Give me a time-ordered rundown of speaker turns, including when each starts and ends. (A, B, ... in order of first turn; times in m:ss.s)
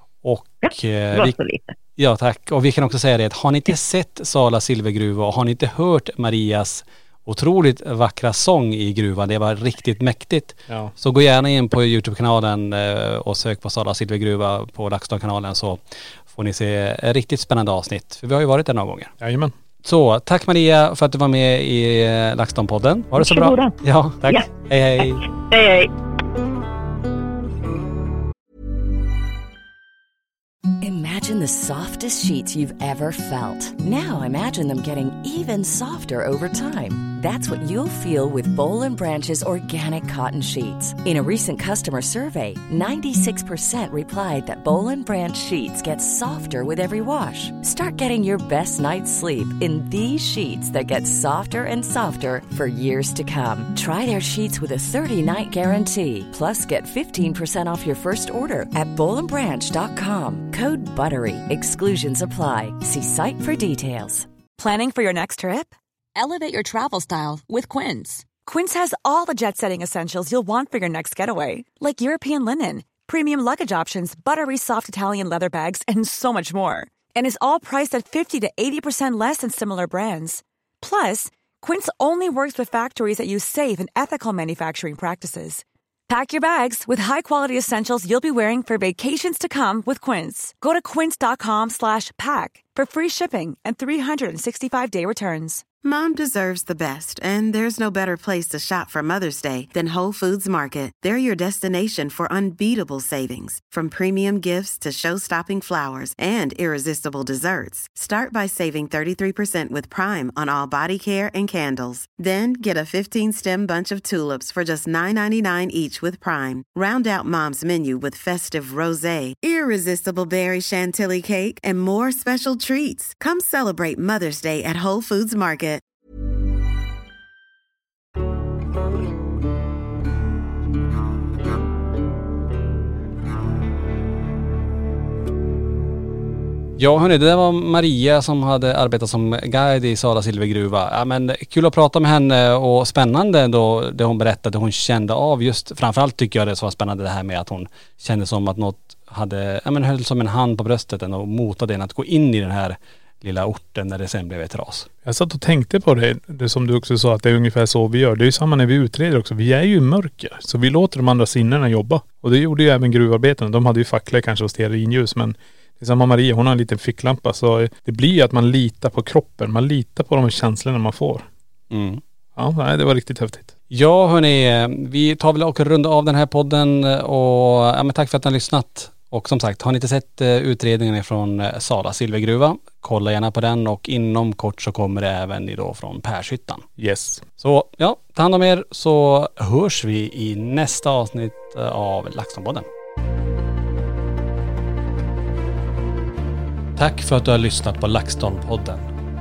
0:00.2-0:01.3 A
0:00.6-0:01.7 B
0:02.0-0:19.1 A
0:10.7-0:10.9 C
0:19.2-0:19.5 C
0:19.8-0:25.3 A
0:23.2-0:24.5 B
0:25.0-0:25.9 B
0:30.8-1:04.3 D
1:04.6-1:35.6 E
1:35.8-2:05.8 F
2:16.8-2:34.9 A
2:35.0-2:51.3 C
2:51.7-2:52.0 A
2:52.4-2:53.5 C
2:53.7-3:06.6 A
3:06.8-3:07.2 C
3:07.4-3:12.7 A
3:16.8-3:18.9 A